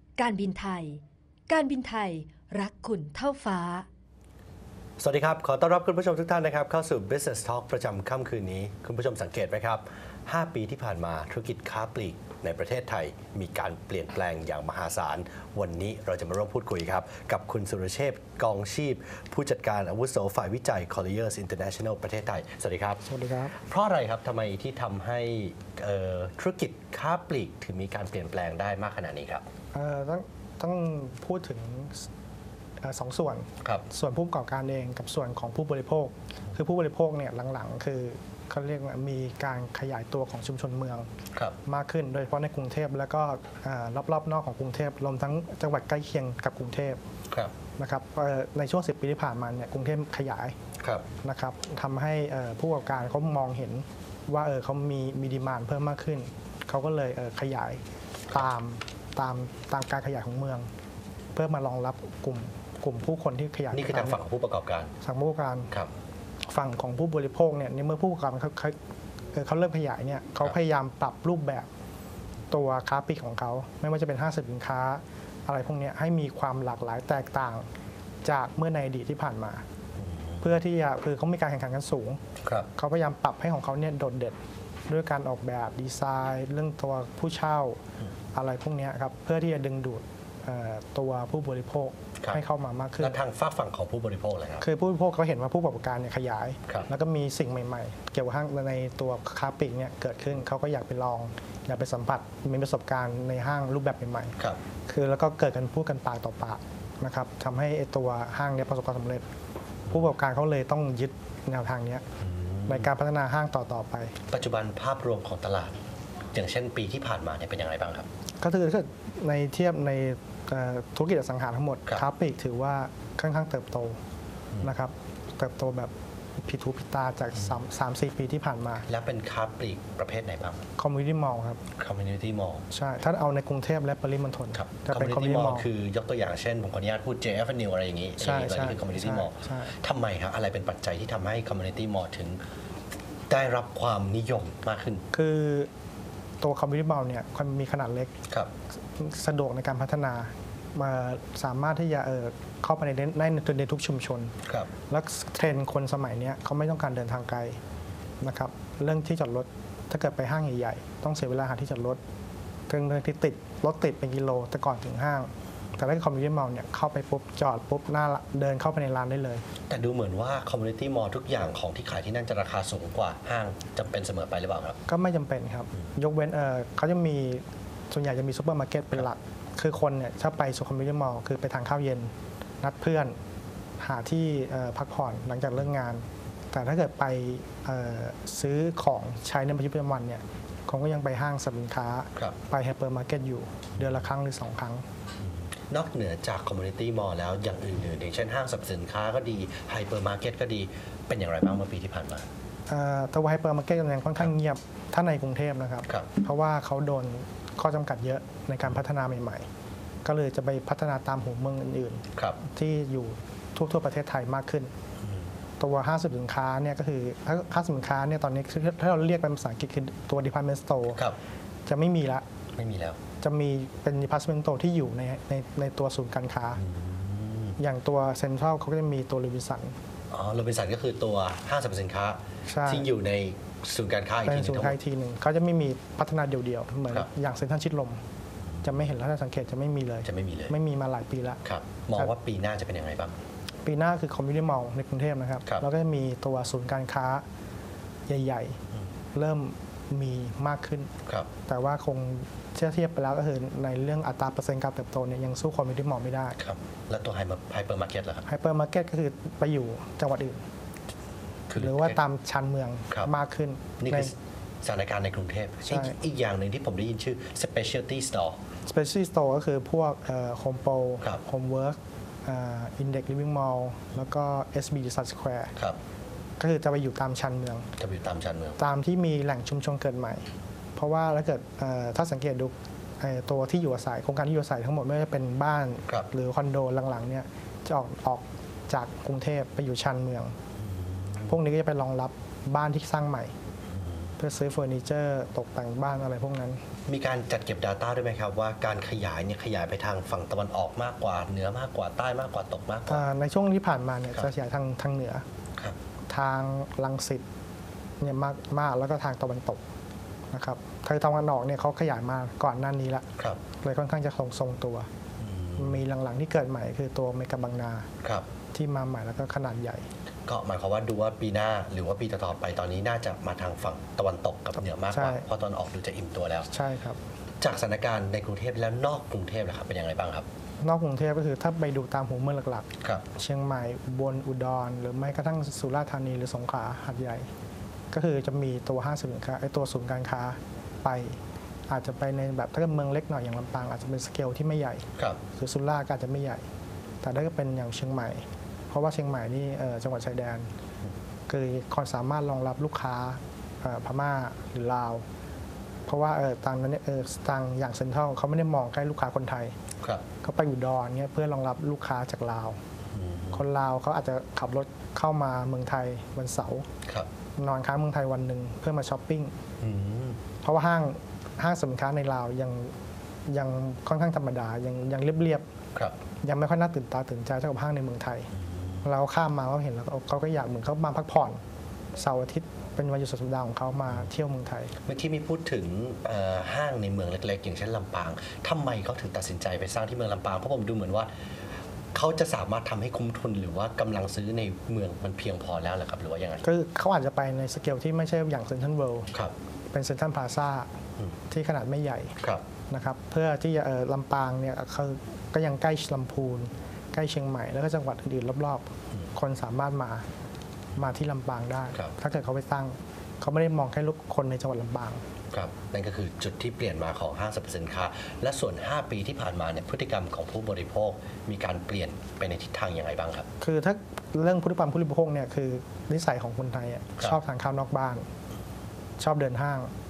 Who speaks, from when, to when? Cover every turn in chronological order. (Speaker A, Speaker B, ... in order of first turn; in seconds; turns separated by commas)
Speaker A: 0.2-3.9, Speaker B: 5.0-23.0, Speaker C: 23.0-23.6, Speaker B: 23.5-29.4, Speaker C: 29.7-32.1, Speaker C: 32.8-41.1, Speaker C: 41.6-47.0, Speaker C: 47.8-50.6, Speaker B: 50.8-51.1, Speaker C: 51.2-60.7, Speaker C: 61.3-64.2, Speaker B: 63.7-64.9, Speaker C: 65.0-65.7, Speaker C: 66.5-68.8, Speaker C: 69.3-71.7, Speaker C: 72.5-77.7, Speaker C: 78.2-79.6, Speaker B: 80.0-80.4, Speaker C: 80.4-87.8, Speaker B: 82.4-82.7, Speaker C: 88.3-93.2, Speaker B: 93.0-94.7, Speaker C: 94.6-104.4, Speaker C: 104.9-109.3, Speaker C: 109.9-112.1, Speaker B: 112.2-112.9, Speaker C: 112.7-114.2, Speaker B: 114.3-115.8, Speaker B: 116.3-118.1, Speaker C: 118.4-124.0, Speaker C: 124.6-128.9, Speaker B: 128.9-130.7, Speaker C: 130.8-131.6, Speaker B: 131.8-132.7, Speaker C: 132.7-135.7, Speaker B: 134.5-142.4, Speaker C: 138.2-139.7, Speaker B: 143.3-145.0, Speaker C: 145.1-145.7, Speaker C: 146.4-148.2, Speaker C: 149.0-154.3, Speaker B: 154.4-154.7, Speaker C: 154.9-157.6, Speaker C: 158.2-162.0, Speaker C: 162.7-169.4, Speaker B: 169.7-174.8, Speaker C: 174.9-183.2, Speaker C: 183.8-194.8, Speaker B: 195.7-202.3, Speaker C: 202.7-209.5, Speaker C: 210.1-214.7, Speaker C: 215.6-221.0, Speaker C: 221.7-222.3, Speaker B: 222.6-223.0, Speaker C: 223.2-226.6, Speaker B: 226.6-227.6, Speaker C: 227.6-229.8, Speaker B: 230.1-234.8, Speaker C: 232.5-232.9, Speaker C: 234.3-238.0, Speaker B: 238.5-238.9, Speaker C: 238.6-241.4, Speaker B: 240.1-240.6, Speaker B: 241.4-243.2, Speaker C: 243.7-247.2, Speaker C: 248.1-248.6, Speaker C: 249.1-250.9, Speaker C: 251.5-256.4, Speaker B: 256.4-258.3, Speaker C: 258.3-260.4, Speaker B: 261.5-262.0, Speaker C: 261.6-264.1, Speaker B: 263.8-268.4, Speaker C: 265.7-265.9, Speaker C: 268.7-275.5, Speaker C: 276.4-277.7, Speaker B: 277.8-278.6, Speaker C: 278.6-290.4, Speaker B: 290.6-291.3, Speaker C: 291.3-293.3, Speaker B: 293.7-294.1, Speaker C: 294.2-296.6, Speaker B: 296.9-303.1, Speaker C: 302.9-305.2, Speaker C: 306.1-307.2, Speaker C: 308.0-309.6, Speaker C: 310.3-313.1, Speaker C: 313.6-314.9, Speaker B: 315.2-315.8, Speaker C: 315.6-317.9, Speaker C: 318.5-319.9, Speaker B: 320.3-326.5, Speaker C: 324.9-325.3, Speaker C: 326.5-327.0, Speaker B: 327.4-330.3, Speaker C: 330.6-337.3, Speaker C: 337.9-346.4, Speaker C: 347.0-350.5, Speaker C: 351.3-355.1, Speaker C: 355.9-359.6, Speaker C: 360.2-362.6, Speaker B: 362.9-363.4, Speaker C: 363.3-366.7, Speaker C: 367.4-369.4, Speaker B: 369.6-370.2, Speaker C: 370.4-372.7, Speaker C: 373.3-375.4, Speaker C: 376.2-378.3, Speaker B: 378.4-378.9, Speaker C: 378.8-381.4, Speaker C: 382.0-384.7, Speaker B: 384.9-391.1, Speaker B: 391.9-396.4, Speaker C: 396.4-399.1, Speaker C: 399.7-400.7, Speaker C: 401.3-402.2, Speaker C: 402.7-410.1, Speaker C: 410.8-415.0, Speaker B: 415.3-423.3, Speaker C: 423.4-428.1, Speaker C: 429.0-429.7